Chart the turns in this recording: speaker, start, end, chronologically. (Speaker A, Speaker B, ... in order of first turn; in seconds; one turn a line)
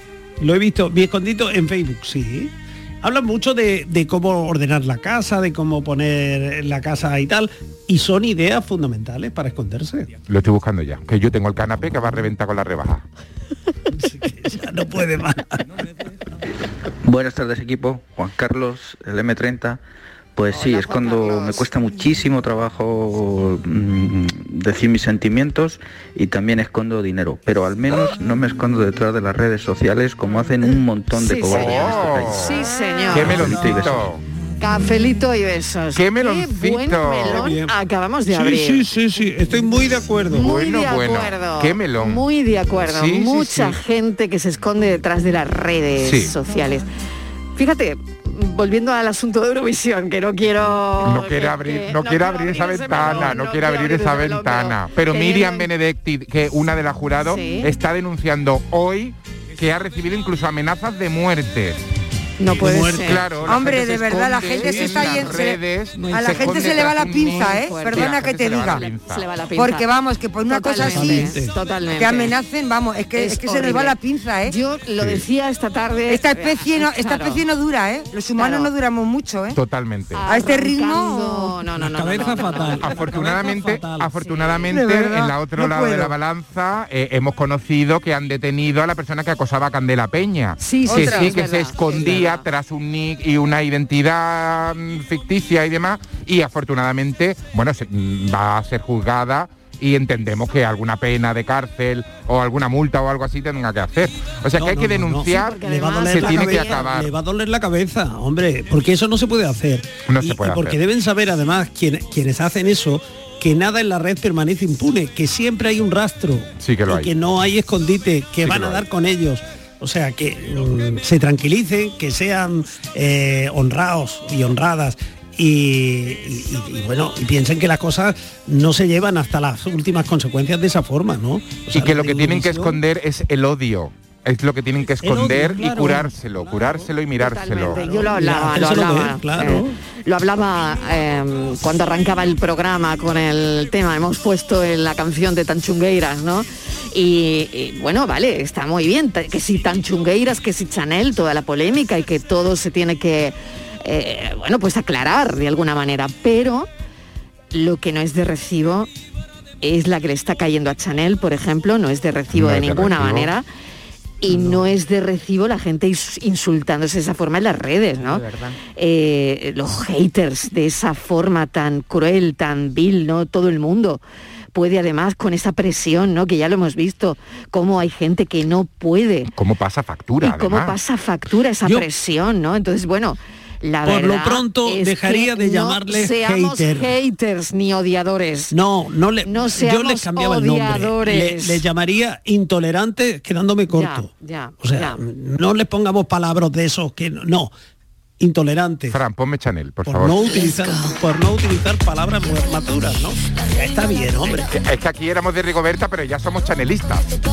Speaker A: 0.4-10.1
Speaker B: 10.3-13.0
Speaker A: 13.9-15.6
Speaker C: 17.0-19.8
Speaker C: 20.4-32.5
Speaker D: 20.5-21.7
Speaker D: 31.1-33.6
Speaker B: 31.5-34.2
Speaker A: 32.5-34.1
Speaker C: 33.3-34.0
Speaker D: 34.6-38.9
Speaker B: 35.9-37.5
Speaker A: 37.2-37.7
Speaker A: 38.3-40.5
Speaker D: 40.3-46.9
Speaker B: 40.4-42.2
Speaker B: 42.9-43.8
Speaker B: 46.0-46.3
Speaker D: 47.5-55.7
Speaker B: 51.0-61.8
Speaker A: 53.0-53.3
Speaker D: 57.2-57.7
Speaker D: 62.4-63.2
Speaker A: 62.5-63.6
Speaker B: 63.0-69.3
Speaker E: 63.5-68.8
Speaker A: 64.6-65.2
Speaker D: 66.2-69.8
Speaker E: 69.5-71.3
Speaker D: 70.5-72.3
Speaker A: 70.8-71.5
Speaker E: 72.0-74.5
Speaker D: 73.2-77.4
Speaker B: 75.0-75.2
Speaker E: 76.1-79.6
Speaker D: 78.4-78.7
Speaker B: 79.5-80.2
Speaker D: 80.1-83.2
Speaker E: 80.2-81.5
Speaker A: 81.7-84.1
Speaker B: 82.8-107.1
Speaker D: 84.2-84.7
Speaker E: 84.7-86.1
Speaker D: 90.6-92.4
Speaker E: 90.8-91.3
Speaker A: 104.5-132.8
Speaker D: 105.3-106.9
Speaker B: 110.1-110.8
Speaker B: 116.6-117.1
Speaker B: 118.4-118.8
Speaker B: 131.7-137.8
Speaker A: 135.0-136.9
Speaker D: 137.2-156.7
Speaker A: 137.7-139.8
Speaker D: 157.5-158.9
Speaker D: 159.6-163.4
Speaker B: 162.3-163.3
Speaker D: 164.2-174.0
Speaker A: 164.3-164.7
Speaker D: 174.5-179.3
Speaker B: 179.3-180.7
Speaker D: 180.2-188.5
Speaker A: 183.8-186.9
Speaker A: 188.5-194.1
Speaker D: 189.2-191.6
Speaker D: 193.7-195.0
Speaker A: 194.6-197.5
Speaker A: 198.2-199.0
Speaker B: 198.9-200.4
Speaker A: 199.8-204.5
Speaker B: 204.3-207.0